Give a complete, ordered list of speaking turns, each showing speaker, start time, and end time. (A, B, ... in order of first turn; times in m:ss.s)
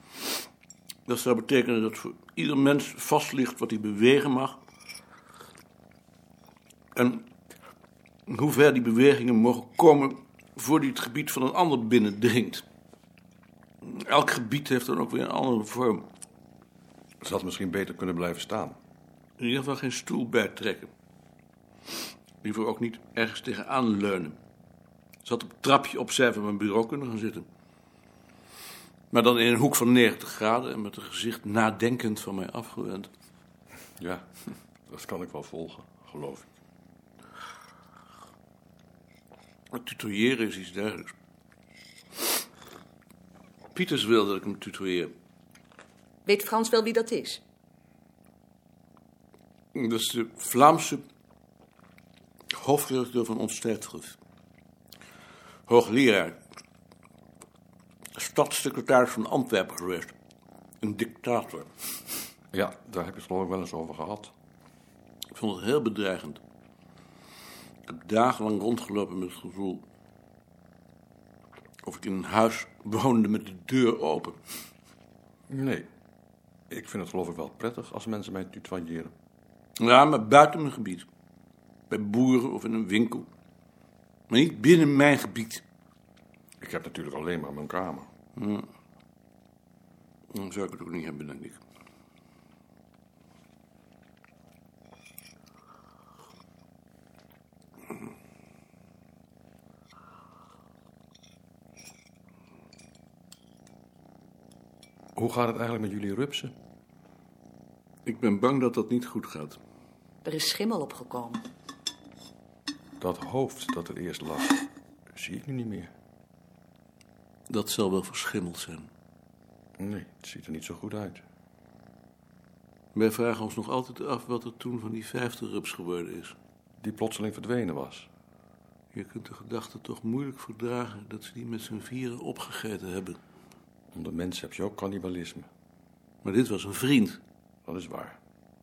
0:01.1-0:04.6 A
0:07.0-0:07.2 A
0:08.3-0:12.6 A
0:13.8-0:16.1 A
0:17.2-0:18.8 B
0:19.4-0:20.9 A
0:22.4-0:24.4 A
0:25.2-0:27.5 A
0:29.1-0:33.1 A
0:34.0-0:34.2 B
0:34.9-0:36.5 B
0:39.7-0:41.1 A
0:43.8-0:45.1 A
0:46.2-0:47.4 C
0:49.8-0:51.0 A
0:52.5-0:54.2 A
0:55.7-0:56.4 A
0:58.2-1:00.1 A
1:00.8-1:01.7 A
1:02.5-1:04.3 B
1:05.3-1:06.4 A
1:07.9-1:09.8 A
1:11.8-1:14.4 A
1:15.5-1:15.9 B
1:16.7-1:19.1 B
1:19.8-1:21.1 A
1:21.9-1:23.3 A
1:24.3-1:25.6 A
1:26.6-1:28.1 B
1:28.4-1:28.7 A
1:30.3-1:31.6 A
1:45.2-1:46.5 B
1:48.1-1:49.6 A
1:50.2-1:51.4 C
1:53.0-1:54.6 B
1:55.1-1:55.9 B
1:57.5-1:58.9 A
1:59.8-2:01.2 B
2:03.0-2:06.4 A
2:06.8-2:08.1 B
2:08.9-2:13.2 A
2:13.9-2:15.5 B
2:16.2-2:17.2 A
2:17.7-2:18.2 B